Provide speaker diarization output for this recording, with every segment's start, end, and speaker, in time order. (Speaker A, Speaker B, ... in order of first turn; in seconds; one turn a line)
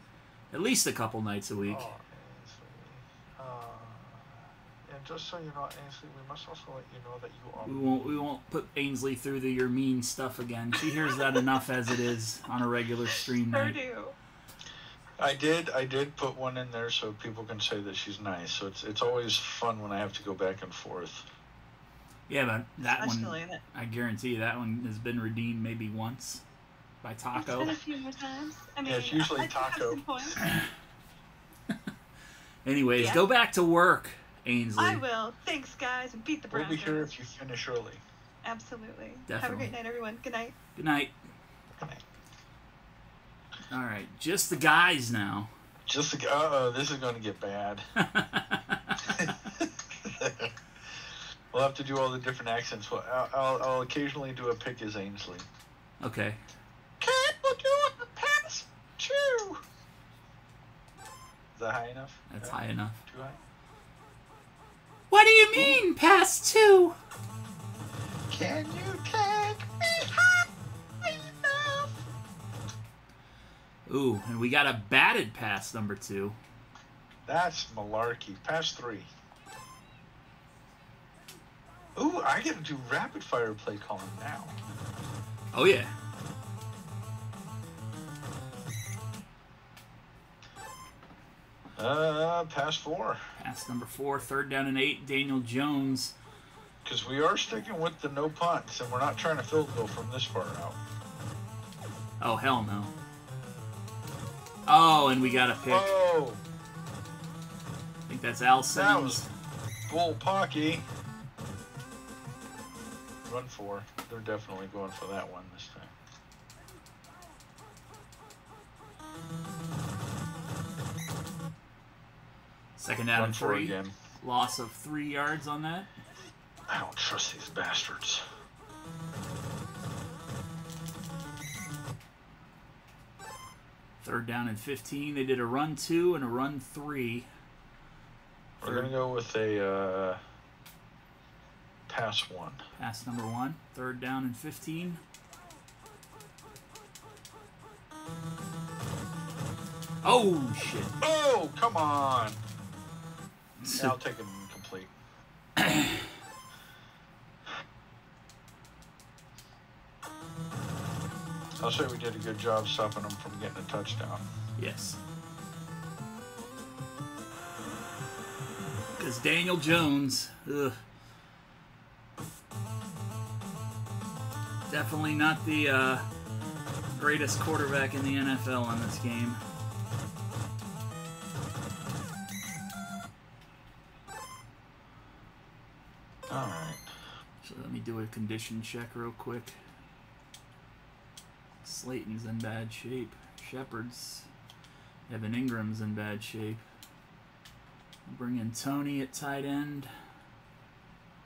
Speaker A: 0.5-1.9
Speaker B: 1.7-8.3
Speaker A: 7.6-13.8
Speaker C: 13.5-14.1
Speaker B: 15.2-21.3
Speaker A: 22.3-26.4
Speaker C: 22.8-23.6
Speaker A: 27.0-27.8
Speaker C: 27.4-30.4
Speaker B: 28.8-30.4
Speaker A: 32.6-35.0
Speaker C: 33.0-33.2
Speaker C: 34.8-37.1
Speaker B: 36.5-38.0
Speaker C: 38.4-40.5
Speaker A: 39.3-39.7
Speaker A: 40.8-41.2
Speaker A: 43.7-45.5
Speaker B: 45.9-47.9
Speaker A: 48.0-48.8
Speaker B: 49.0-50.5
Speaker B: 51.5-55.5
Speaker A: 56.0-56.4
Speaker B: 57.0-59.6
Speaker B: 61.6-63.4
Speaker A: 62.3-63.0
Speaker A: 65.1-67.0
Speaker B: 65.5-65.8
Speaker B: 68.3-70.5
Speaker B: 71.0-71.9
Speaker A: 73.9-76.4
Speaker B: 77.3-79.1
Speaker B: 82.0-84.6
Speaker A: 85.5-85.9
Speaker B: 91.8-93.2
Speaker A: 93.4-96.1
Speaker B: 96.8-100.8
Speaker A: 102.2-102.9
Speaker A: 104.7-105.9
Speaker B: 105.7-106.4
Speaker A: 108.1-109.3
Speaker B: 108.7-109.2
Speaker B: 109.9-110.8
Speaker B: 113.3-115.9
Speaker A: 122.8-125.9
Speaker B: 123.2-123.9
Speaker B: 126.7-128.2
Speaker A: 134.0-137.3
Speaker B: 138.6-140.2
Speaker A: 138.6-138.9
Speaker B: 141.9-142.7
Speaker A: 142.8-145.0
Speaker A: 150.0-150.9
Speaker B: 151.0-152.4
Speaker A: 153.6-153.9
Speaker B: 153.7-154.9
Speaker A: 155.6-156.1
Speaker B: 161.6-164.3
Speaker A: 164.6-165.0
Speaker A: 169.0-170.8
Speaker A: 174.7-176.1
Speaker A: 176.9-179.4
Speaker B: 186.3-186.9
Speaker A: 187.4-189.6
Speaker A: 191.6-194.3
Speaker A: 195.1-196.6
Speaker A: 198.1-199.9